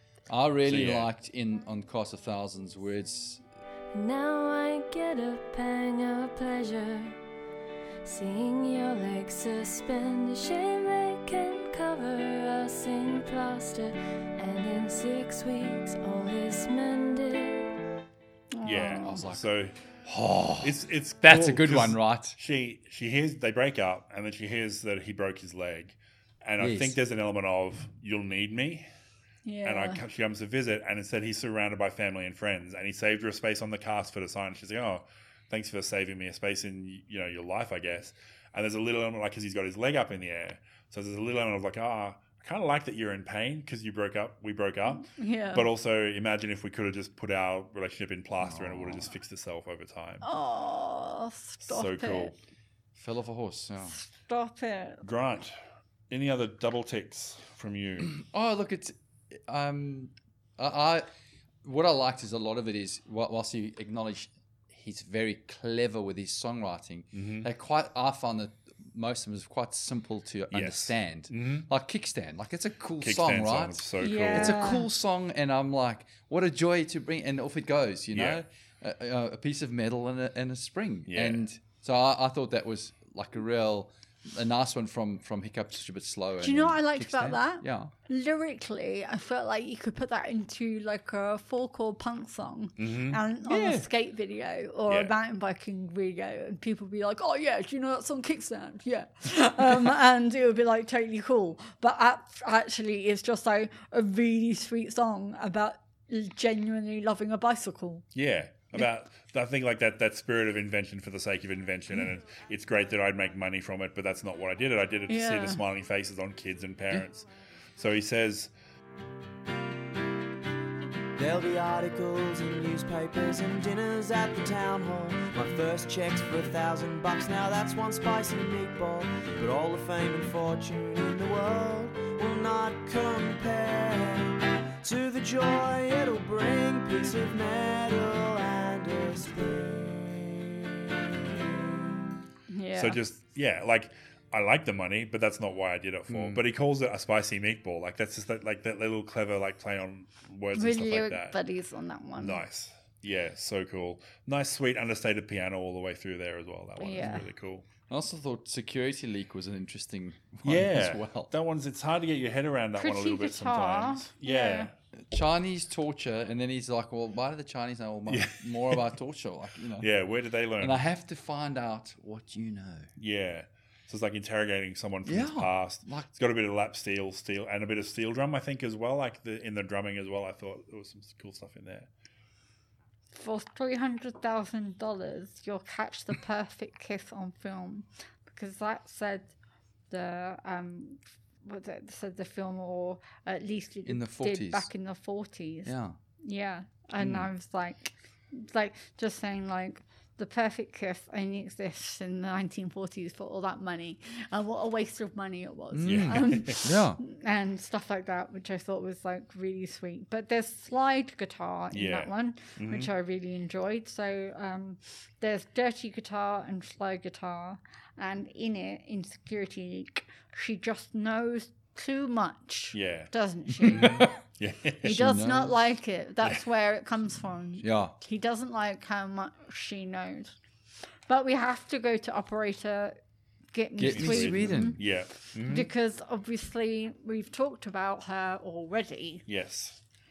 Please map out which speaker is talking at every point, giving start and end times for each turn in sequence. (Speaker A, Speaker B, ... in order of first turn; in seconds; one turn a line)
Speaker A: 0.3-3.4
Speaker B: 0.7-1.1
Speaker C: 3.9-7.2
Speaker C: 8.1-17.7
Speaker D: 18.5-19.2
Speaker B: 18.6-19.8
Speaker A: 19.0-19.5
Speaker A: 20.1-22.4
Speaker B: 20.6-28.9
Speaker A: 26.6-27.0
Speaker D: 29.4-30.0
Speaker B: 29.6-50.3
Speaker D: 45.0-45.7
Speaker A: 48.4-49.1
Speaker D: 50.2-52.3
Speaker B: 51.6-52.4
Speaker A: 53.0-54.0
Speaker D: 53.9-55.0
Speaker B: 55.0-55.6
Speaker B: 56.1-58.1
Speaker A: 58.1-61.1
Speaker A: 61.6-87.9
Speaker B: 67.1-67.5
Speaker B: 70.5-71.7
Speaker B: 73.0-74.7
Speaker D: 74.0-74.9
Speaker B: 78.1-78.4
Speaker B: 81.1-81.4
Speaker D: 86.4-108.1
Speaker B: 92.8-93.2
Speaker A: 93.5-93.9
Speaker B: 94.9-95.1
Speaker B: 108.2-118.5
Speaker D: 115.1-115.6
Speaker E: 121.2-141.9
Speaker D: 142.5-143.0
Speaker B: 142.8-151.4
Speaker A: 146.1-146.4
Speaker D: 150.6-152.4
Speaker B: 152.2-157.7
Speaker D: 156.8-157.2
Speaker A: 157.9-161.3
Speaker B: 160.4-164.7
Speaker D: 162.8-164.7
Speaker A: 165.0-169.9
Speaker B: 168.1-168.9
Speaker B: 169.8-170.8
Speaker A: 170.6-172.9
Speaker B: 173.0-181.9
Speaker A: 175.1-176.1
Speaker D: 183.2-189.3
Speaker D: 189.9-224.1
Speaker A: 193.9-194.7
Speaker A: 195.7-196.0
Speaker A: 197.0-197.3
Speaker A: 205.7-207.0
Speaker B: 205.8-206.7
Speaker B: 211.7-212.9
Speaker B: 222.7-223.1
Speaker A: 223.6-224.1
Speaker B: 223.7-224.9
Speaker D: 224.8-230.3
Speaker A: 224.8-225.6
Speaker A: 227.6-227.9
Speaker D: 231.1-233.0
Speaker D: 233.5-234.8
Speaker A: 233.8-234.8
Speaker B: 233.9-235.7
Speaker D: 235.5-239.3
Speaker B: 239.3-239.8